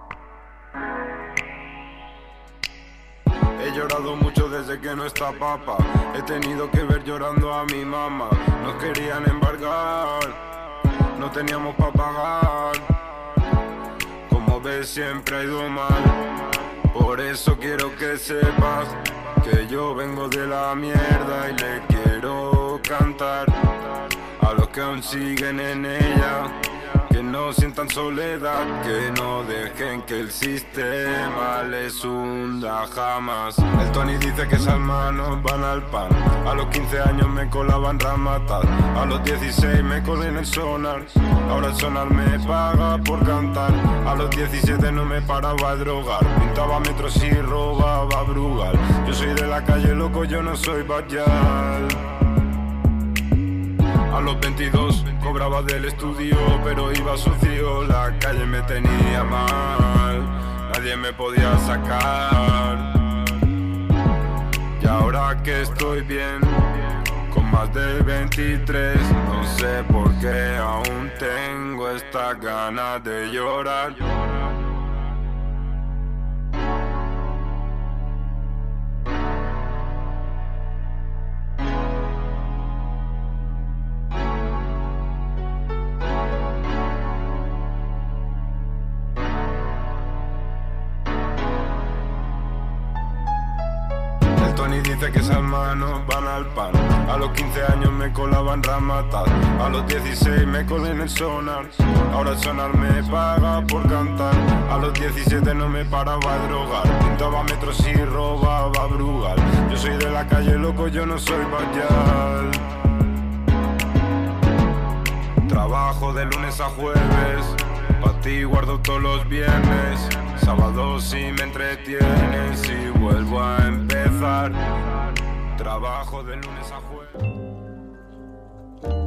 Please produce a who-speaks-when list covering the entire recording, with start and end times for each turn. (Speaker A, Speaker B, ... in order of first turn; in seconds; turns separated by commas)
Speaker A: 3.6-10.4, Speaker A: 11.2-13.0, Speaker A: 14.3-23.6, Speaker A: 24.4-52.0, Speaker A: 54.1-63.0, Speaker A: 64.8-66.7, Speaker A: 67.3-74.0, Speaker A: 94.4-112.7, Speaker A: 115.5-124.6, Speaker A: 125.5-127.2